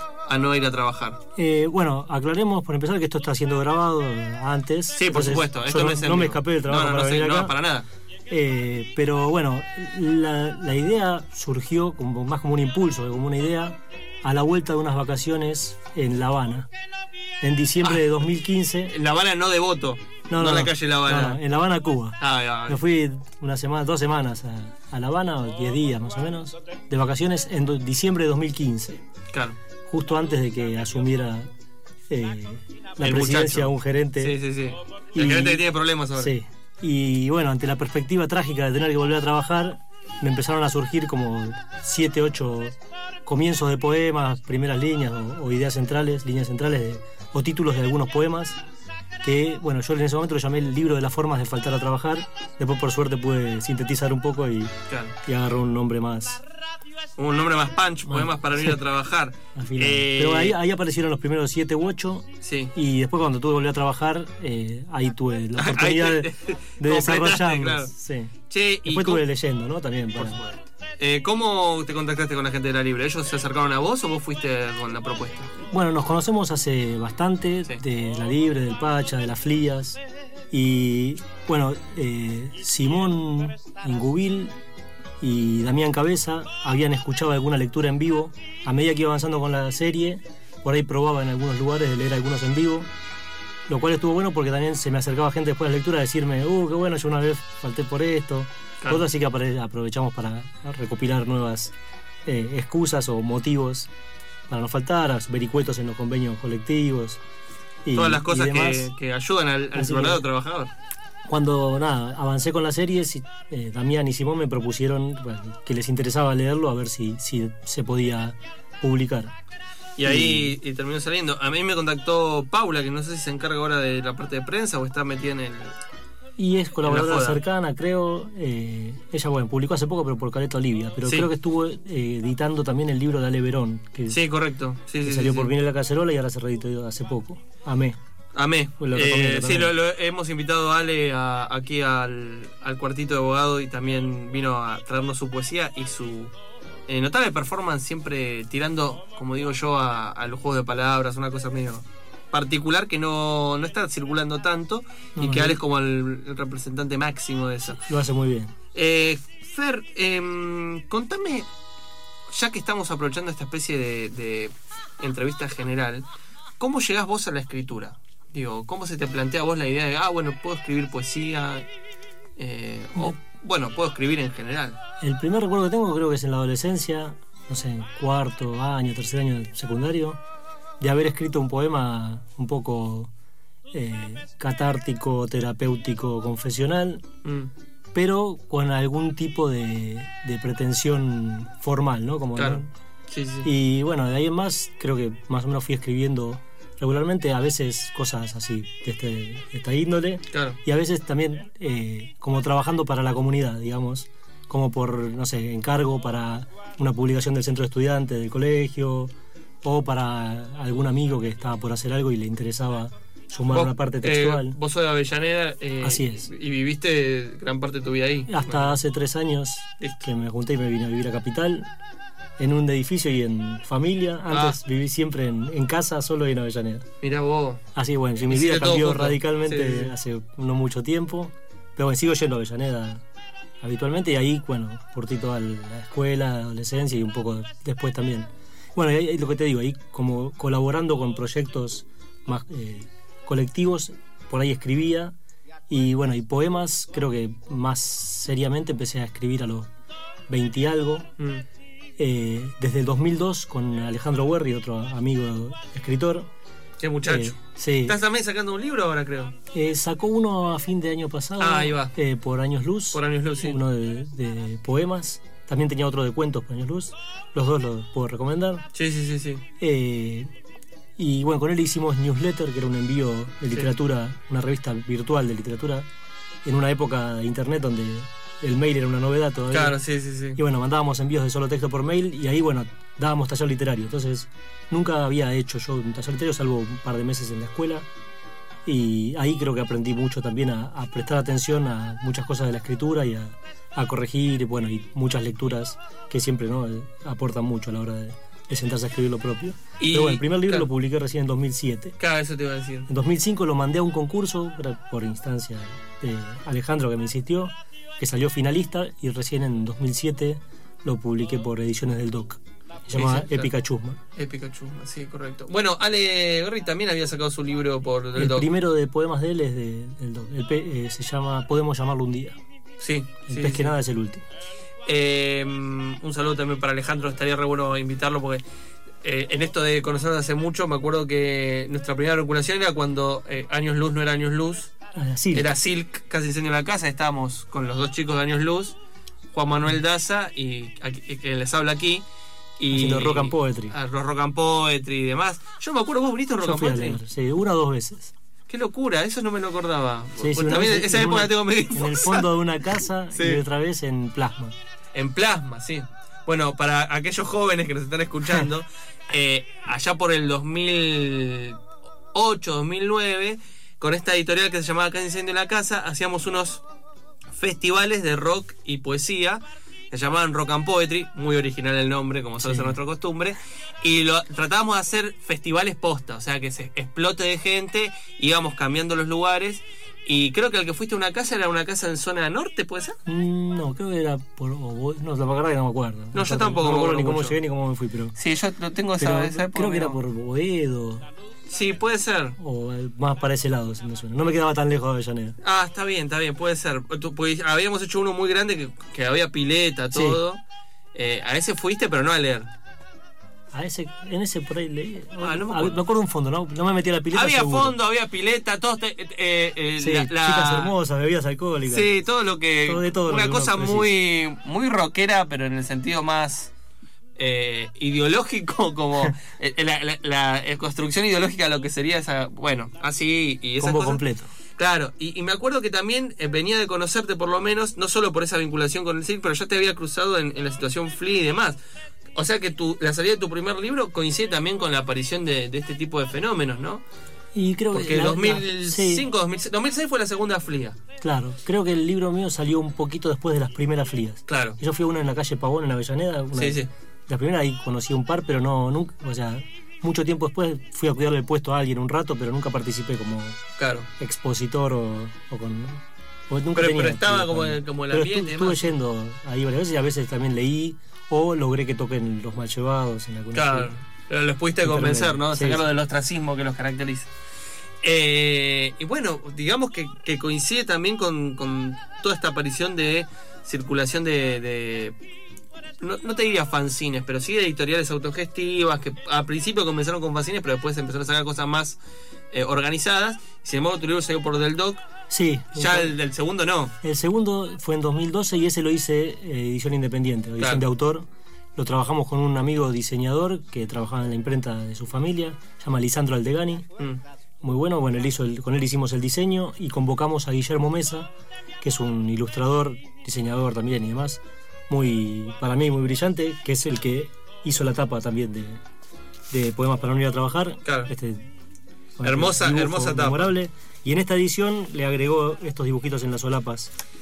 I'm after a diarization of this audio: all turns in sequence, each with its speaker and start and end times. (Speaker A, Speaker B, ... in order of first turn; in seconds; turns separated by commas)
Speaker A: 0.2-1.2, Speaker B: 1.4-7.5, Speaker A: 4.9-7.9, Speaker B: 8.3-16.7, Speaker B: 17.4-18.9, Speaker A: 18.9-21.4, Speaker B: 20.3-29.0, Speaker A: 22.2-22.8, Speaker A: 29.3-29.6, Speaker B: 29.9-31.5, Speaker B: 32.1-34.4, Speaker A: 33.0-36.3, Speaker B: 35.1-42.7, Speaker B: 43.2-48.6, Speaker B: 49.2-56.4, Speaker A: 54.9-55.1, Speaker A: 57.2-60.6, Speaker B: 58.1-58.8, Speaker B: 59.5-68.3, Speaker A: 62.4-62.7, Speaker A: 65.5-67.9, Speaker A: 68.5-69.2, Speaker B: 68.8-70.4, Speaker A: 70.2-75.5, Speaker B: 75.7-80.0, Speaker B: 80.5-84.5, Speaker B: 85.2-92.9, Speaker B: 93.7-101.7, Speaker B: 102.2-103.9, Speaker B: 104.5-107.2, Speaker B: 107.8-108.9, Speaker A: 107.9-110.7, Speaker B: 109.7-110.2, Speaker B: 111.2-119.3, Speaker A: 120.0-125.8, Speaker B: 120.0-120.5, Speaker B: 126.4-134.2, Speaker A: 126.8-127.4, Speaker A: 131.0-131.3, Speaker A: 134.1-135.5, Speaker B: 135.0-138.0, Speaker A: 138.3-146.3, Speaker B: 138.8-139.8, Speaker A: 146.9-157.8, Speaker B: 155.2-155.6, Speaker B: 157.8-158.5, Speaker A: 158.7-161.5, Speaker A: 162.3-166.1, Speaker A: 166.6-171.7, Speaker A: 172.4-174.8, Speaker B: 175.0-180.2, Speaker B: 180.8-183.1, Speaker B: 183.7-187.0, Speaker A: 187.2-187.5, Speaker B: 187.9-192.7, Speaker A: 192.3-193.5, Speaker B: 193.4-209.1, Speaker A: 200.3-200.6, Speaker B: 209.6-214.6, Speaker A: 213.5-218.8, Speaker B: 215.8-216.3, Speaker B: 218.3-221.7, Speaker B: 222.4-226.8, Speaker A: 224.3-224.6, Speaker A: 227.0-227.6, Speaker B: 227.7-233.0, Speaker A: 228.3-229.9, Speaker B: 233.6-245.1, Speaker B: 245.7-249.7, Speaker B: 250.3-251.1, Speaker A: 251.2-251.4, Speaker B: 252.0-256.3, Speaker A: 256.8-259.4, Speaker B: 257.1-258.0, Speaker B: 259.5-268.6, Speaker A: 261.4-261.9, Speaker A: 262.9-263.6, Speaker A: 268.7-269.4, Speaker B: 269.6-270.3, Speaker B: 271.0-275.9, Speaker B: 276.4-279.8, Speaker A: 279.5-280.4, Speaker B: 280.4-287.9, Speaker B: 288.6-301.9, Speaker A: 299.8-300.7, Speaker A: 302.0-302.9, Speaker B: 302.9-314.0, Speaker A: 312.9-313.5, Speaker A: 314.1-318.5, Speaker B: 318.1-322.4, Speaker A: 322.8-323.8, Speaker B: 323.3-324.2, Speaker A: 324.8-328.4, Speaker A: 329.0-334.7, Speaker B: 334.9-335.5, Speaker A: 335.3-338.8, Speaker A: 339.3-342.0, Speaker A: 342.6-347.0, Speaker B: 342.7-343.7, Speaker B: 346.4-348.1, Speaker A: 348.5-352.3, Speaker B: 350.2-354.5, Speaker A: 353.1-353.4, Speaker A: 354.9-361.6, Speaker A: 362.1-366.6, Speaker A: 367.3-382.9, Speaker B: 372.4-372.8, Speaker B: 383.1-388.1, Speaker A: 386.1-387.4, Speaker A: 388.1-390.0, Speaker B: 389.0-391.1, Speaker A: 391.5-392.4, Speaker B: 392.4-395.4, Speaker A: 395.4-400.4, Speaker B: 399.9-400.2, Speaker A: 400.9-402.5, Speaker B: 403.5-407.8, Speaker A: 405.2-405.8, Speaker A: 407.1-410.7, Speaker B: 409.8-411.9, Speaker A: 411.7-416.5, Speaker B: 412.6-413.9, Speaker A: 417.2-424.0, Speaker B: 423.6-424.3, Speaker A: 424.5-431.6, Speaker A: 432.1-436.8, Speaker B: 437.3-439.1, Speaker A: 437.7-440.8, Speaker B: 441.0-453.4, Speaker A: 444.3-444.6, Speaker A: 446.3-446.7, Speaker A: 453.6-453.9, Speaker B: 454.0-463.7, Speaker A: 456.5-458.7, Speaker A: 463.3-467.1, Speaker B: 464.6-465.6, Speaker A: 467.8-475.0, Speaker A: 475.8-481.8, Speaker A: 482.3-484.8, Speaker B: 485.1-485.9, Speaker A: 485.5-486.7, Speaker B: 486.8-496.6, Speaker A: 490.4-490.6, Speaker B: 497.4-501.1, Speaker B: 501.6-508.6, Speaker B: 509.3-511.3, Speaker A: 510.6-510.9, Speaker B: 512.0-516.7, Speaker A: 512.0-513.3